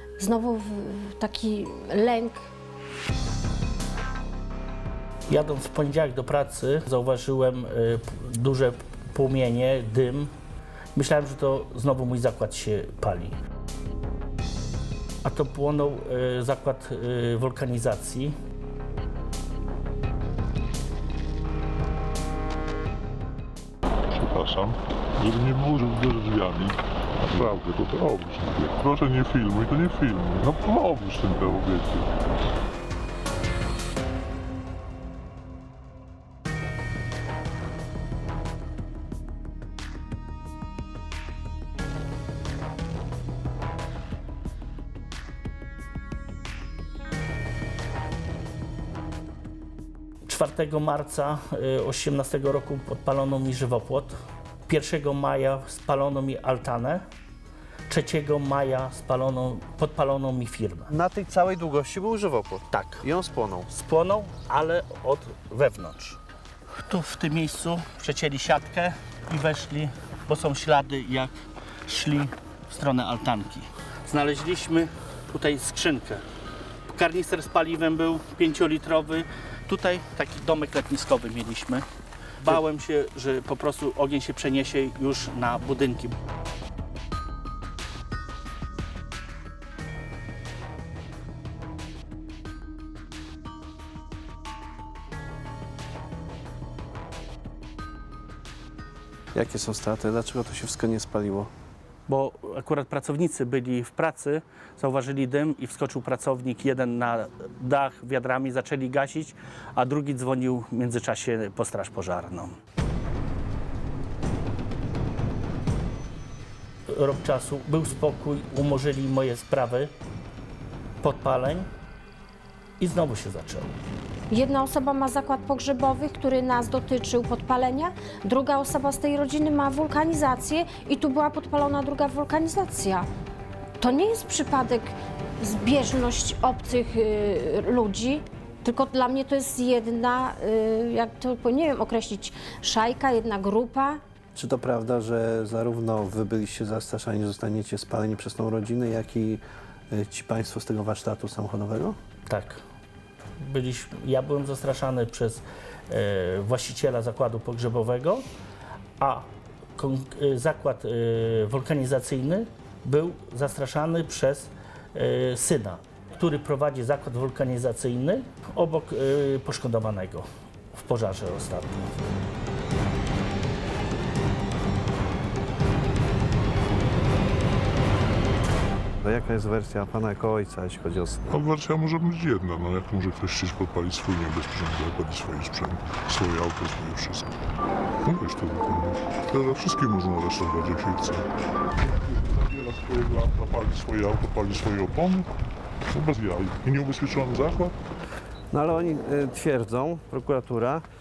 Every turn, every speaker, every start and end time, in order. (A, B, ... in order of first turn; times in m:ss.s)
0:00.2-0:02.5 A
0:05.3-0:10.3 B
0:11.0-0:13.4 B
0:15.2-0:18.4 B
0:24.1-0:32.1 C
0:50.2-0:54.2 B
0:54.7-0:57.0 B
0:57.9-1:00.9 B
1:00.9-1:03.7 D
1:02.7-1:03.0 B
1:03.7-1:06.2 B
1:06.8-1:11.3 B
1:11.8-1:16.2 B
1:16.9-1:21.8 B
1:22.4-1:26.2 B
1:39.4-1:41.5 D
1:42.1-1:52.6 B
1:56.9-1:59.9 B
2:01.0-2:01.7 B
2:02.8-2:03.7 B
2:04.3-2:13.1 A
2:13.8-2:24.0 A
2:24.4-2:32.0 D
2:32.3-2:32.6 B
2:33.4-2:38.3 B
2:39.0-2:52.2 B
2:59.0-3:01.2 D
3:01.3-3:07.3 C
3:08.0-3:11.3 C
3:12.0-3:15.3 C
3:15.9-3:17.8 C
3:18.5-3:20.8 D